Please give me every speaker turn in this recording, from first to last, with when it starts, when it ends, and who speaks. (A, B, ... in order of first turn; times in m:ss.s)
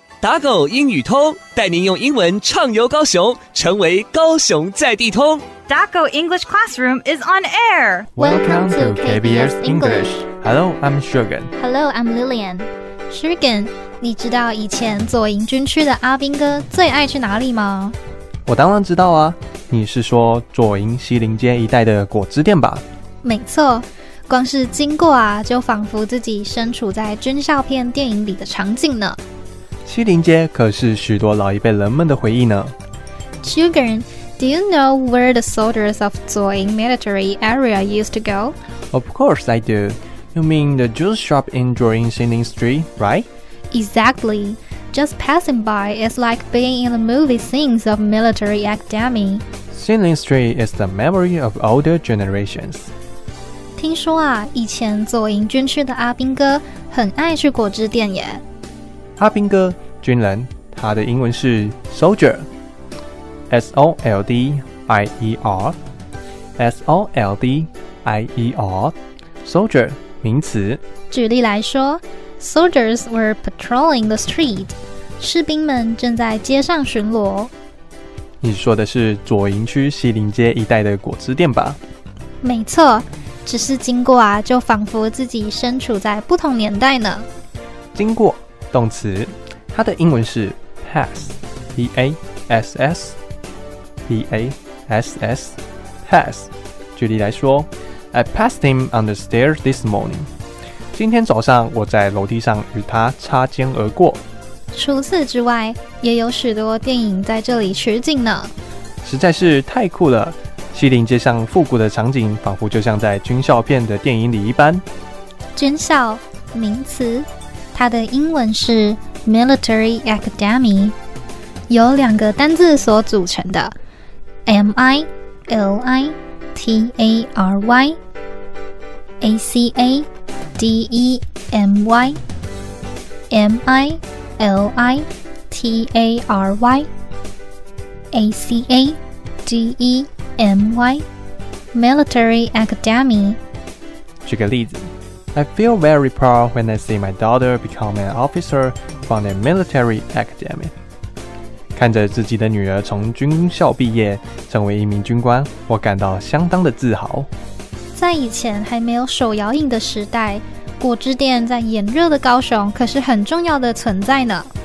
0:00.2-0:05.4 A
0:05.7-0:08.2 B
0:08.2-0:11.5 C
0:08.2-0:10.1 D
0:11.6-0:18.0 D
0:18.5-0:22.8 C
0:23.2-0:29.2 D
0:29.9-0:32.8 C
0:33.4-0:38.6 D
0:38.9-0:43.3 C
0:43.7-0:49.4 D
0:49.7-0:52.9 C
0:53.8-0:58.4 D
0:59.2-1:02.5 C
1:03.5-1:05.8 C
1:06.6-1:10.8 C
1:11.1-1:17.5 D
1:18.4-1:21.8 C
1:22.4-1:27.3 D
1:27.9-1:33.2 C
1:34.1-1:40.3 C
1:40.9-1:44.2 C
1:44.7-1:48.5 D
1:49.0-1:54.8 C
1:55.6-2:01.0 D
2:01.7-2:03.7 D
2:04.5-2:08.0 D
2:09.2-2:12.2 D
2:13.3-2:16.9 D
2:18.1-2:21.0 D
2:21.7-2:23.4 D
2:24.2-2:30.7 C
2:31.8-2:37.3 C
2:38.0-2:44.5 D